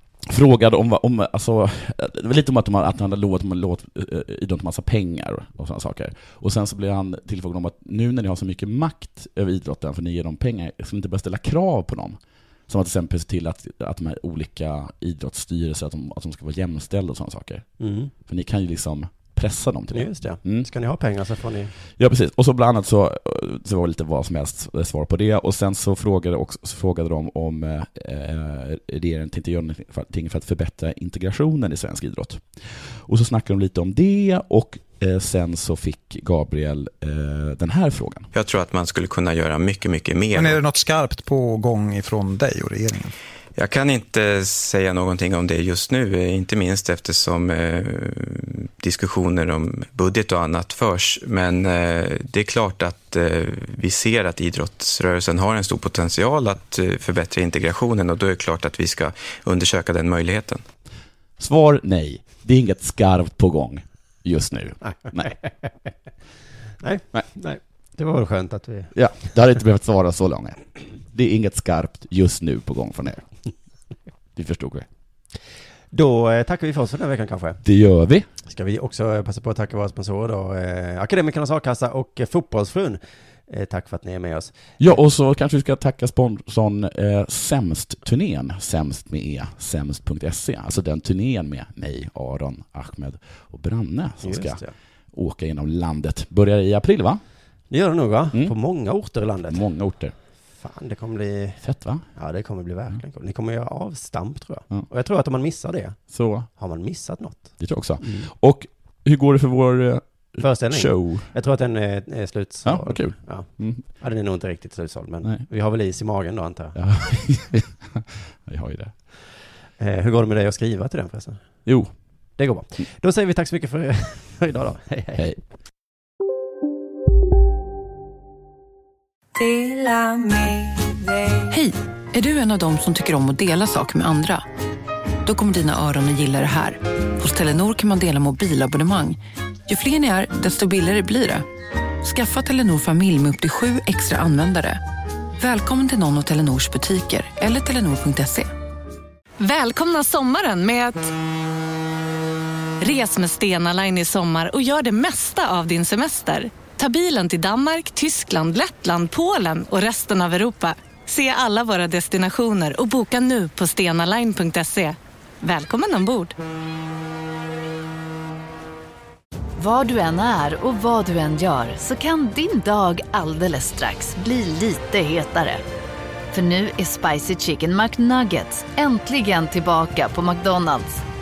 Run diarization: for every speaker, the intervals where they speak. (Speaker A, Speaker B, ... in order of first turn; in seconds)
Speaker A: 0.2-17.7, 18.2-20.7, 22.0-38.3, 61.4-65.3, 68.9-70.6, 71.1-73.2, 74.4-74.9, 77.6-78.3, 84.8-94.6, 95.1-97.2, 99.5-100.1, 101.6-102.0, 106.1-106.5, 107.6-111.3, 112.6-113.8, 116.8-118.9, 121.7-121.9
Speaker B: 17.8-18.1, 19.9-21.7, 64.9-65.5, 66.8-68.9, 75.9-77.6, 78.5-84.6, 94.2-94.7, 97.7-99.6, 100.6-101.6, 102.2-106.0, 106.6-108.3, 110.4-113.5, 114.0-116.8, 119.8-121.4, 122.4-125.2
Speaker C: 38.3-40.6, 43.6-60.6
Speaker D: 40.3-43.1
Speaker E: 131.4-134.4, 135.2-141.5, 142.0-144.8, 145.4-148.5
Speaker F: 149.4-151.1, 152.8-166.3
Speaker G: 169.6-175.6, 176.3-181.1